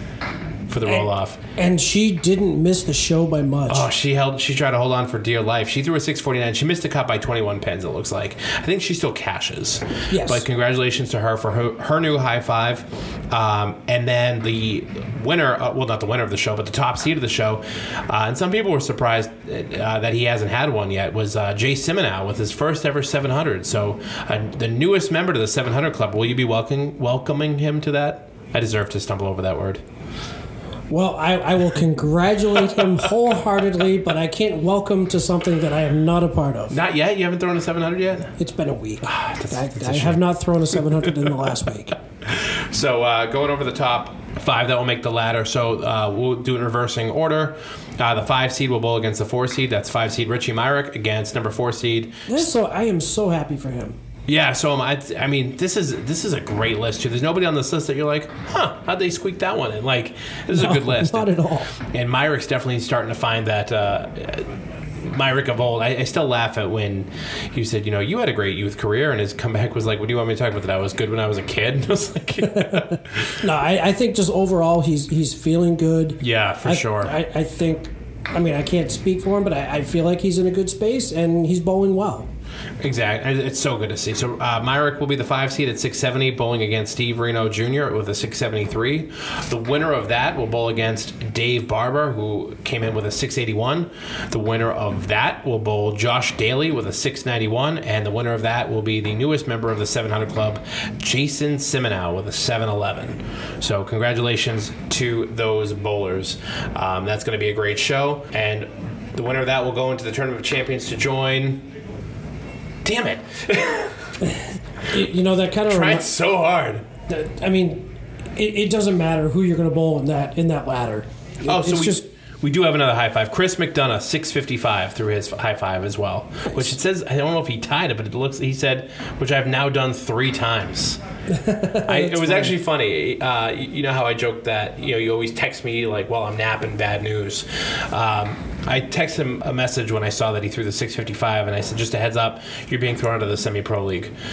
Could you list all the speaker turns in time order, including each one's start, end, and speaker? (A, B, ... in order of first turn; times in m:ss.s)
0:00.7-0:01.4 A
0:00.8-0:03.9 B
0:03.7-0:29.8 A
0:10.1-0:10.4 B
0:30.9-0:36.8 B
0:36.7-0:38.3 A
0:38.4-0:42.0 B
0:39.0-0:40.2 A
0:42.2-0:52.5 A
0:52.3-0:54.0 B
0:54.3-1:01.3 A
1:00.5-1:01.7 B
1:01.9-1:04.4 A
1:05.0-1:13.4 A
1:13.4-1:22.3 B
1:16.2-1:17.1 A
1:22.8-1:51.6 A
1:52.8-1:53.9 A
1:54.2-1:56.0 B
1:55.7-1:56.8 A
1:57.1-1:57.8 B
1:58.4-2:02.0 B
2:01.4-2:11.0 A
2:11.3-2:12.5 B
2:11.8-2:24.1 A